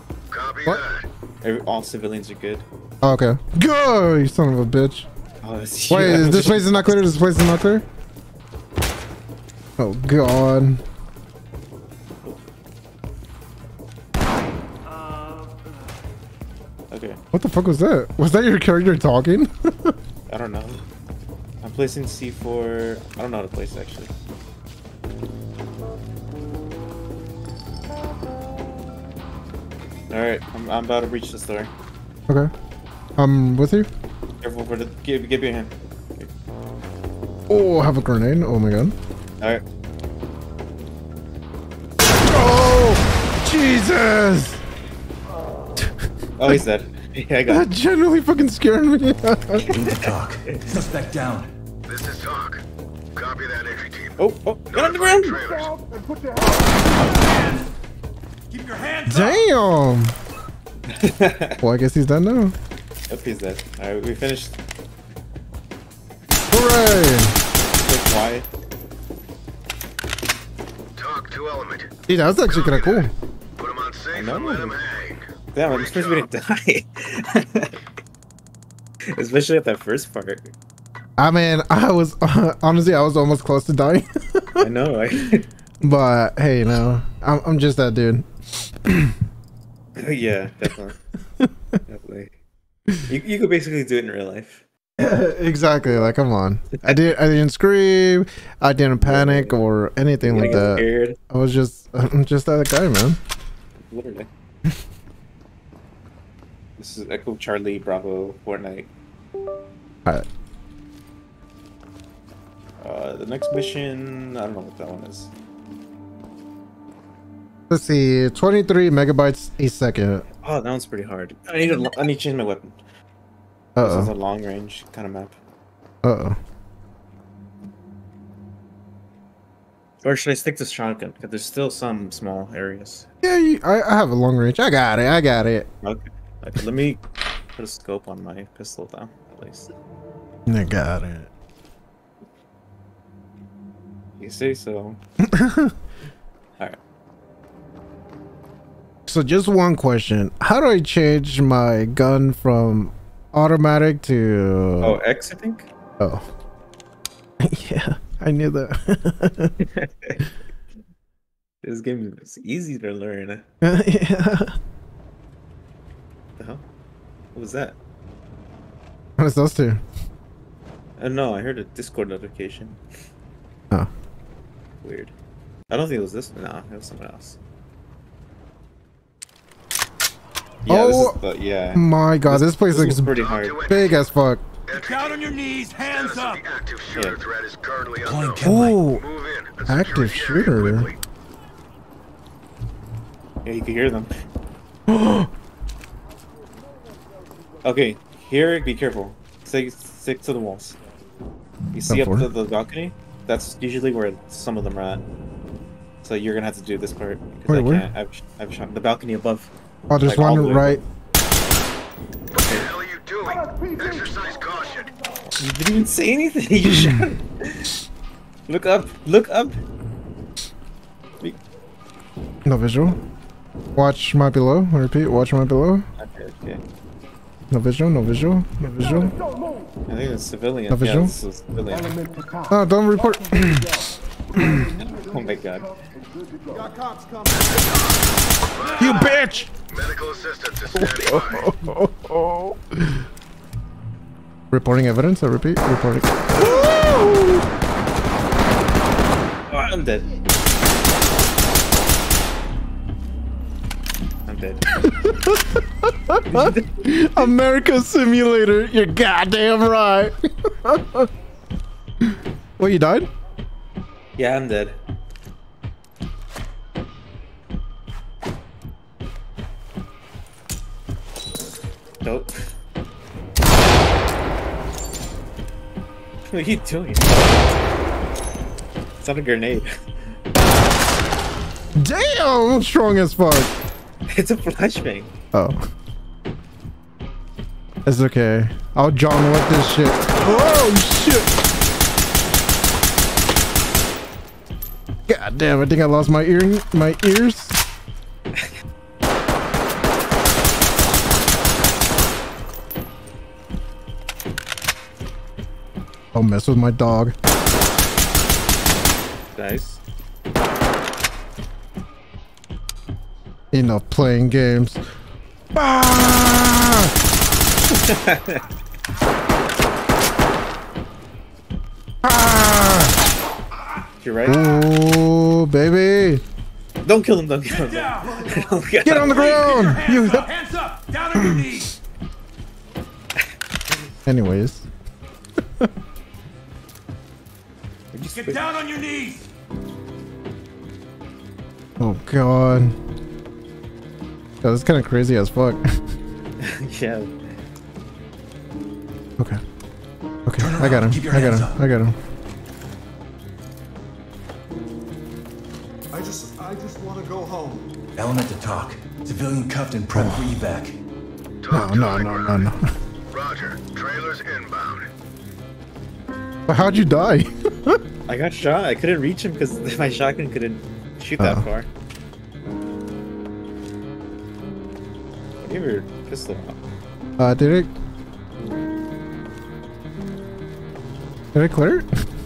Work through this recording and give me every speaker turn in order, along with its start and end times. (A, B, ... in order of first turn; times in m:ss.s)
0:00.3-0:01.1 A
0:01.4-0:02.7 B
0:03.0-0:05.1 C
0:05.4-0:06.9 B
0:05.9-0:07.9 C
0:09.8-0:10.8 C
0:16.9-0:17.2 B
0:17.3-0:20.0 C
0:20.3-0:20.8 B
0:21.6-0:24.1 B
0:30.1-0:31.7 B
0:33.2-0:33.9 C
0:34.4-0:36.3 B
0:37.5-0:39.0 C
0:42.1-0:44.6 C
0:46.4-0:47.7 B
0:47.5-0:49.6 C
0:49.6-0:50.7 B
0:49.7-0:51.5 D
0:51.9-0:52.6 A
0:53.1-0:55.8 A
0:54.2-0:55.5 B
0:57.0-0:57.7 E
0:58.5-0:59.4 E
0:59.1-1:00.2 C
1:00.9-1:01.6 B
1:01.6-1:02.6 C
1:03.1-1:04.6 B
1:06.5-1:07.4 C
1:07.8-1:08.5 B
1:11.0-1:11.9 A
1:12.1-1:13.1 C
1:12.5-1:16.3 A
1:14.1-1:14.8 B
1:15.5-1:17.8 B
1:19.1-1:20.5 B
1:21.2-1:24.7 C
1:24.6-1:25.5 B
1:25.8-1:29.2 C
1:30.0-1:31.0 B
1:31.9-1:32.4 B
1:33.1-1:34.6 B
1:35.0-1:43.2 C
1:39.0-1:39.6 B
1:40.2-1:41.2 B
1:43.8-1:44.3 B
1:46.8-1:48.9 B
1:52.8-1:55.3 B
1:57.7-2:00.3 C
2:00.4-2:02.8 B
2:03.8-2:04.1 C
2:03.8-2:05.4 B
2:06.0-2:06.4 C
2:10.0-2:13.1 B
2:13.2-2:15.7 C
2:15.8-2:17.0 B
2:17.6-2:19.7 B
2:20.5-2:21.3 C
2:24.2-2:25.0 B
2:25.2-2:25.8 C
2:29.1-2:35.0 C
2:34.8-2:35.7 B
2:36.0-2:36.3 C
2:37.4-2:39.6 C
2:39.6-2:40.3 B
2:41.6-2:43.4 B
2:43.6-2:44.6 C
2:46.4-2:46.6 B
2:47.3-2:47.8 B
2:49.2-2:49.8 C
2:51.0-2:52.8 B
2:54.8-2:55.1 B
2:55.7-2:57.4 B
3:00.6-3:03.6 B
3:00.7-3:01.2 C
3:01.7-3:03.2 C
3:03.1-3:04.0 A
3:03.7-3:04.4 C
3:04.7-3:11.0 A
3:04.8-3:06.4 E
3:08.0-3:08.8 D
3:08.4-3:09.0 C
3:09.7-3:10.9 C
3:13.4-3:14.2 B
3:14.9-3:15.3 C
3:17.6-3:20.8 B
3:21.7-3:25.0 B
3:21.9-3:22.3 C
3:26.0-3:29.5 B
3:27.5-3:27.9 C
3:29.9-3:30.8 C
3:30.0-3:30.8 B
3:32.3-3:34.9 A
3:32.4-3:32.6 B
3:35.4-3:37.7 B
3:36.7-3:37.1 C
3:38.5-3:39.6 B
3:42.4-3:43.0 C
3:43.8-3:45.8 C
3:46.0-3:46.6 B
3:47.5-3:49.2 C
3:49.9-3:52.0 B
3:50.7-3:51.1 C
3:52.5-3:53.8 C
3:54.4-3:54.7 C
3:54.4-3:55.7 B
3:56.5-3:58.0 F
3:57.3-4:01.5 A
3:58.8-3:59.5 C
4:00.7-4:03.1 C
4:04.5-4:07.4 C
4:09.5-4:10.1 B
4:14.3-4:14.7 B
4:14.7-4:21.1 C
4:16.3-4:17.3 B
4:22.0-4:23.1 C
4:24.2-4:24.8 B
4:32.0-4:32.4 B
4:36.3-4:37.6 B
4:39.0-4:39.7 B
4:41.8-4:43.6 C
4:44.1-4:45.1 B
4:45.3-4:45.7 C
4:47.9-4:51.4 C
4:55.1-4:57.6 C
5:06.1-5:07.2 C
5:09.3-5:09.8 B
5:13.5-5:14.8 C
5:15.6-5:17.0 C
5:17.7-5:18.5 B
5:22.0-5:23.0 C
5:24.0-5:24.6 B
5:24.2-5:26.2 C
5:26.8-5:29.5 B
5:27.4-5:28.3 E
5:28.0-5:28.8 F
5:28.8-5:30.3 C
5:28.9-5:31.7 E
5:31.2-5:31.4 C
5:34.1-5:34.7 C
5:35.4-5:35.7 C
5:37.9-5:38.4 B
5:38.1-5:39.3 E
5:41.8-5:42.8 C
5:44.4-5:45.8 C
5:46.4-5:47.2 B
5:50.3-5:52.0 C
5:50.4-5:51.6 D
5:55.9-5:57.7 F
5:58.0-6:00.8 D
6:00.0-6:00.3 C
6:01.4-6:02.5 A
6:01.5-6:02.6 C
6:03.1-6:04.9 A
6:06.5-6:07.8 C
6:08.1-6:11.7 B
6:11.2-6:11.4 C
6:15.4-6:16.6 B
6:17.2-6:17.7 C
6:21.3-6:21.9 C